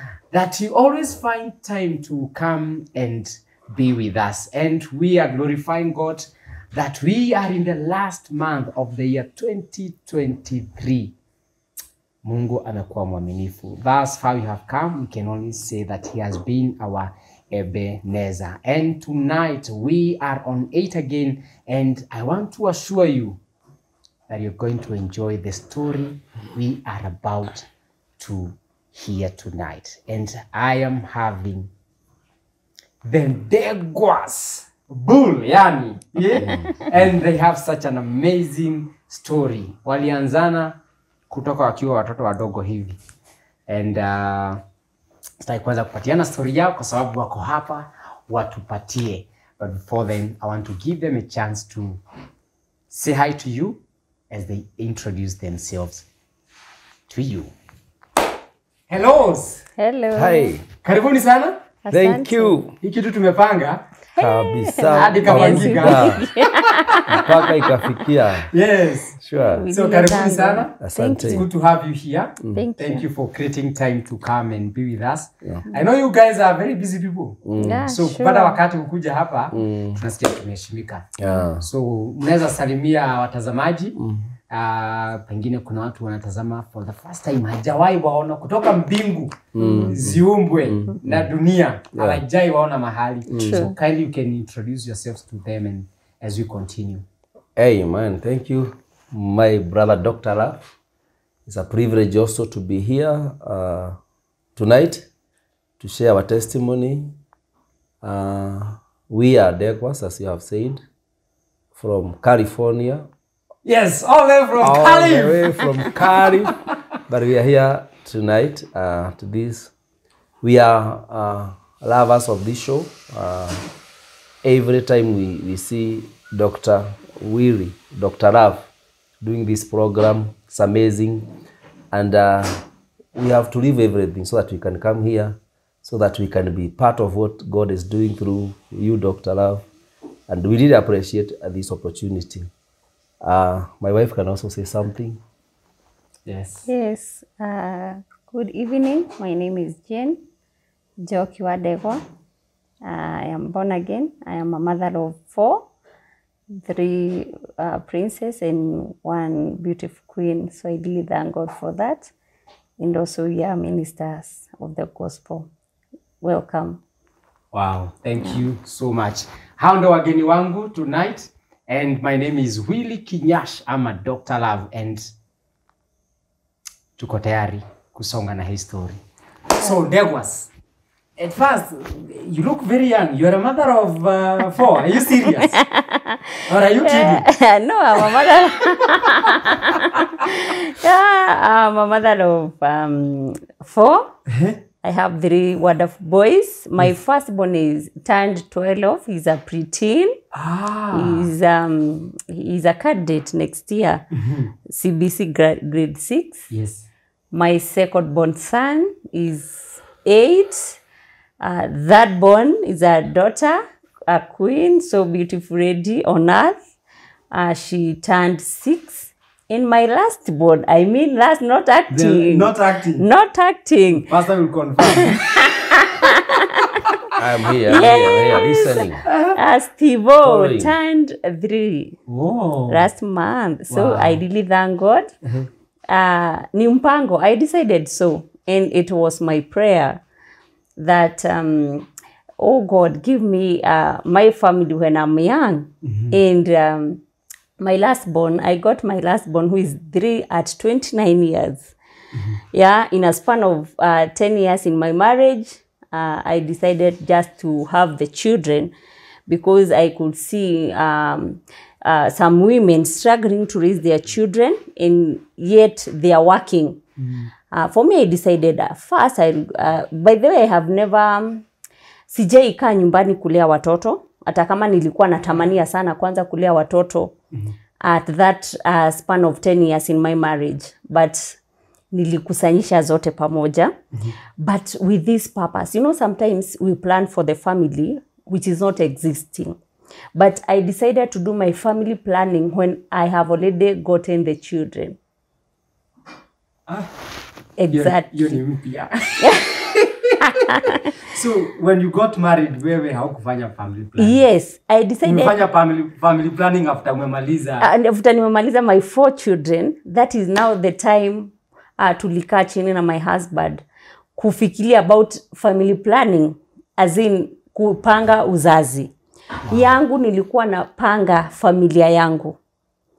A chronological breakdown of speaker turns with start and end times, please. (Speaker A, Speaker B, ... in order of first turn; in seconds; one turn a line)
Speaker A: 0.3-11.1
Speaker A: 12.2-23.4
Speaker A: 24.3-31.7
Speaker A: 33.0-40.8
Speaker B: 36.4-36.7
Speaker A: 41.3-43.0
Speaker A: 43.7-44.6
Speaker A: 45.4-52.0
Speaker A: 52.9-56.1
Speaker A: 57.1-57.5
Speaker A: 58.9-59.6
Speaker C: 59.8-60.5
Speaker B: 60.1-60.7
Speaker A: 60.8-61.6
Speaker C: 61.8-62.6
Speaker B: 61.9-62.7
Speaker A: 62.8-63.8
Speaker C: 64.2-67.7
Speaker B: 64.2-66.3
Speaker A: 64.8-66.2
Speaker B: 67.0-68.5
Speaker A: 68.5-69.2
Speaker B: 69.2-69.7
Speaker C: 69.4-71.5
Speaker A: 69.7-84.0
Speaker B: 70.8-71.5
Speaker C: 72.5-73.0
Speaker B: 77.4-77.9
Speaker C: 77.6-78.6
Speaker B: 79.5-80.0
Speaker B: 81.2-81.7
Speaker B: 84.0-84.3
Speaker A: 84.5-97.0
Speaker B: 89.5-91.3
Speaker C: 89.6-89.9
Speaker B: 91.9-92.2
Speaker B: 93.3-93.7
Speaker C: 93.4-93.7
Speaker B: 97.6-100.7
Speaker B: 101.5-104.0
Speaker B: 104.5-105.1
Speaker B: 105.8-107.1
Speaker B: 108.0-110.8
Speaker B: 111.8-113.1
Speaker A: 113.6-116.1
Speaker B: 114.6-119.7
Speaker B: 120.4-123.6
Speaker B: 124.4-131.3
Speaker B: 131.9-132.6
Speaker B: 133.2-139.6
Speaker B: 140.3-142.5
Speaker B: 143.2-145.2
Speaker A: 146.2-146.7
Speaker C: 146.7-150.2
Speaker C: 151.0-152.0
Speaker C: 152.8-155.7
Speaker C: 156.5-162.1
Speaker C: 162.8-165.5
Speaker C: 166.2-166.8
Speaker A: 167.5-175.1
Speaker A: 177.0-180.5
Speaker A: 181.2-185.6
Speaker C: 185.4-186.3
Speaker A: 186.5-187.2
Speaker C: 186.8-194.1
Speaker A: 194.3-194.6
Speaker C: 194.8-200.2
Speaker A: 200.3-201.3
Speaker C: 200.9-204.0
Speaker A: 204.2-204.5
Speaker C: 204.7-206.5
Speaker A: 206.5-206.8
Speaker C: 207.3-210.8
Speaker C: 211.4-216.6
Speaker C: 217.3-224.1
Speaker A: 221.9-223.1
Speaker A: 223.9-225.2
Speaker C: 224.9-227.0
Speaker B: 227.2-229.0
Speaker C: 227.7-232.0
Speaker A: 229.1-229.3
Speaker B: 230.2-230.7
Speaker A: 232.1-232.9
Speaker C: 232.7-235.1
Speaker A: 233.7-234.2
Speaker C: 235.9-240.0
Speaker C: 240.8-241.9
Speaker C: 242.4-247.0
Speaker A: 245.8-246.2
Speaker C: 247.6-251.8
Speaker C: 252.5-258.7
Speaker C: 259.3-266.8
Speaker A: 267.0-267.3
Speaker C: 267.5-271.4
Speaker C: 272.1-277.1
Speaker C: 277.8-281.4
Speaker C: 281.9-283.7
Speaker C: 284.4-289.6
Speaker C: 290.1-295.0
Speaker C: 297.6-298.4
Speaker A: 297.7-299.3
Speaker C: 299.2-301.0
Speaker A: 301.0-304.2
Speaker C: 304.0-305.4
Speaker A: 305.0-307.7
Speaker C: 307.6-313.6
Speaker C: 314.1-318.9
Speaker A: 319.5-319.8
Speaker C: 319.5-322.4